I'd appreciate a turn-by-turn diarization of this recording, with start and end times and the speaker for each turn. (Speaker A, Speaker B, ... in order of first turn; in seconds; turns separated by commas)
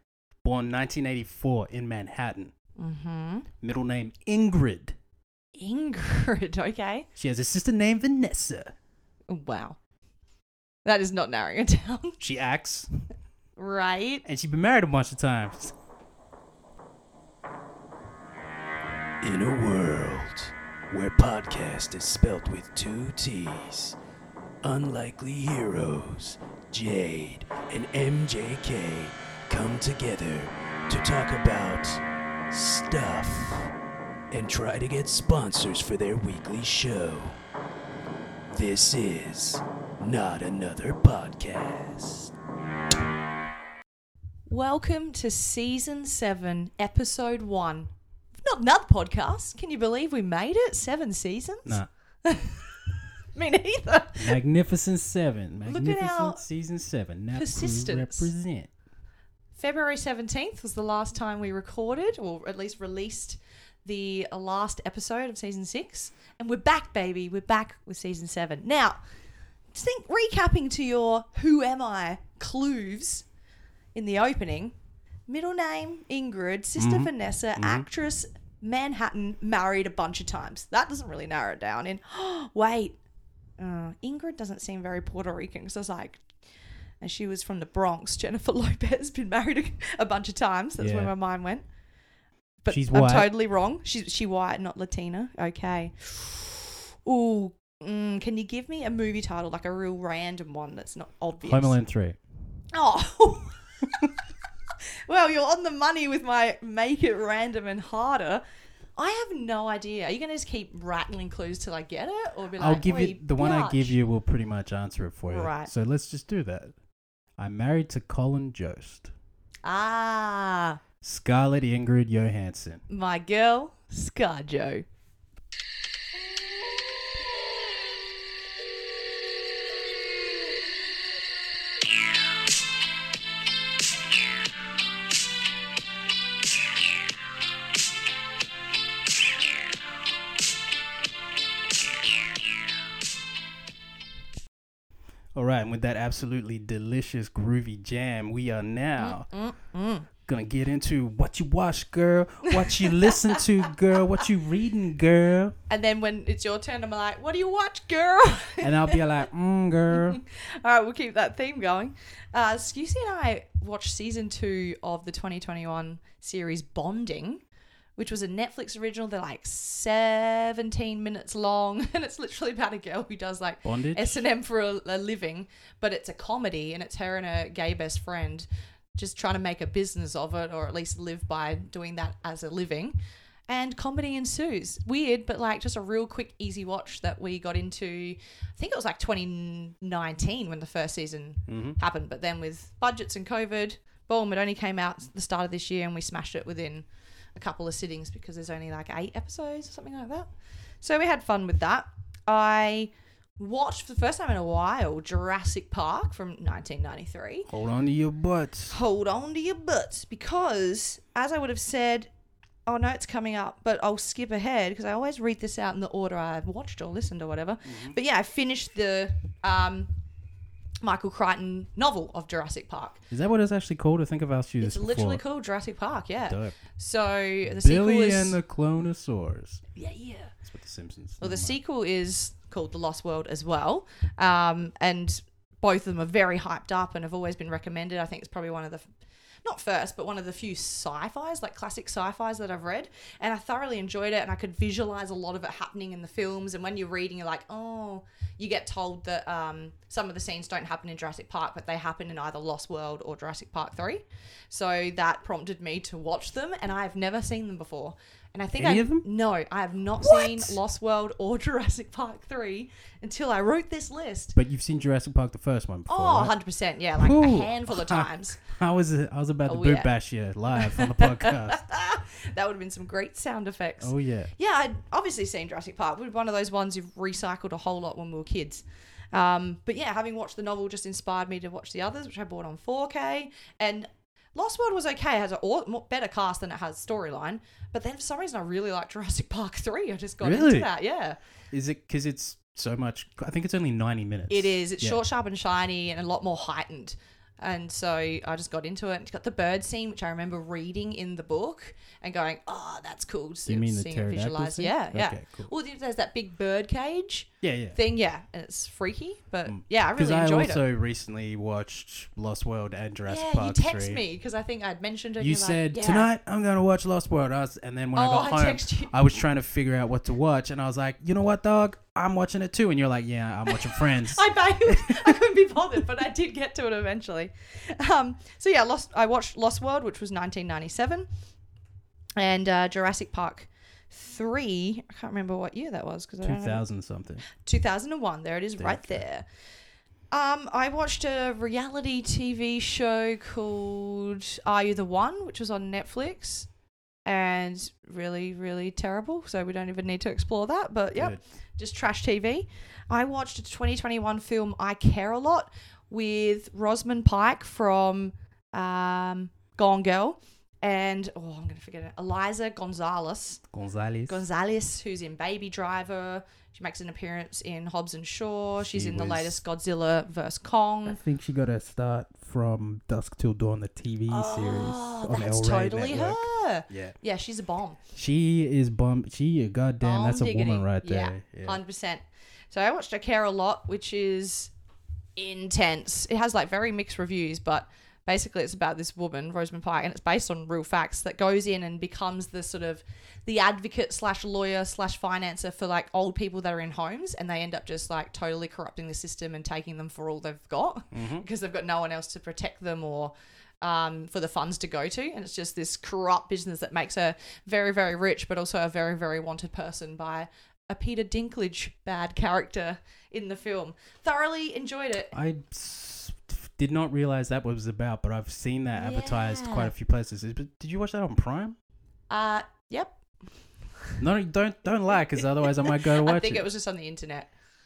Speaker A: 0.4-2.5, Speaker B: 2.8-3.5, Speaker A: 3.6-5.0, Speaker B: 5.5-7.1, Speaker A: 7.2-8.7, Speaker B: 9.3-9.8, Speaker B: 10.8-12.2, Speaker A: 12.2-13.1, Speaker B: 13.6-14.2, Speaker A: 14.2-15.8, Speaker C: 19.2-23.9, Speaker C: 24.6-33.7, Speaker C: 34.3-37.4, Speaker C: 38.5-42.3, Speaker B: 44.5-54.4, Speaker A: 51.6-51.9, Speaker A: 54.2-58.7, Speaker B: 55.6-56.4, Speaker B: 57.3-58.3, Speaker B: 59.5-69.0, Speaker B: 69.7-73.3, Speaker B: 73.9-74.8, Speaker B: 75.3-83.0, Speaker A: 76.8-77.9, Speaker B: 83.6-86.3, Speaker B: 87.0-91.6, Speaker A: 90.8-91.1, Speaker B: 92.6-101.8, Speaker A: 92.7-93.3, Speaker A: 101.5-102.2, Speaker B: 102.7-108.4, Speaker B: 109.0-114.0, Speaker A: 112.6-116.7, Speaker B: 115.3-115.7, Speaker A: 117.4-119.1, Speaker B: 119.6-120.8, Speaker A: 121.0-122.8, Speaker B: 122.9-124.8, Speaker A: 145.4-149.3, Speaker B: 149.0-150.1, Speaker A: 150.2-155.6, Speaker B: 152.5-153.4, Speaker B: 155.7-159.0, Speaker A: 158.6-160.2, Speaker B: 159.9-167.4, Speaker B: 168.0-182.9, Speaker A: 173.6-174.2, Speaker B: 183.5-207.5, Speaker A: 191.5-191.8, Speaker A: 207.5-208.8, Speaker B: 208.7-212.1, Speaker B: 212.7-219.9, Speaker A: 217.7-217.9, Speaker B: 220.8-223.0, Speaker A: 223.1-225.2, Speaker B: 224.6-228.4, Speaker A: 226.3-226.6, Speaker A: 227.5-229.7, Speaker B: 229.8-230.3, Speaker A: 230.4-231.6, Speaker B: 231.2-238.8, Speaker B: 239.4-264.4, Speaker A: 258.6-259.1, Speaker A: 260.0-260.6, Speaker A: 264.4-266.4, Speaker B: 265.9-268.4, Speaker A: 267.0-271.6, Speaker B: 269.5-269.9, Speaker B: 270.5-291.2, Speaker A: 273.8-274.3, Speaker A: 290.2-290.7, Speaker A: 291.5-295.0, Speaker B: 294.3-310.6, Speaker A: 303.5-305.5, Speaker A: 307.4-307.8, Speaker A: 309.4-314.0, Speaker B: 313.1-316.1, Speaker A: 315.2-325.1, Speaker B: 317.9-318.9, Speaker B: 323.5-331.1, Speaker B: 332.2-336.6, Speaker A: 336.2-337.3, Speaker B: 337.3-339.2, Speaker A: 338.6-339.1, Speaker B: 340.1-346.5, Speaker B: 347.1-363.4, Speaker A: 350.9-351.2, Speaker A: 363.5-364.2, Speaker B: 364.1-371.0, Speaker A: 368.7-369.4, Speaker A: 370.9-376.9, Speaker B: 374.1-377.8, Speaker A: 377.9-381.6, Speaker B: 379.8-384.5, Speaker B: 385.2-415.1, Speaker A: 400.9-401.2, Speaker A: 415.1-421.6, Speaker B: 418.7-419.7, Speaker B: 422.1-423.0, Speaker A: 424.0-426.5, Speaker B: 425.8-427.3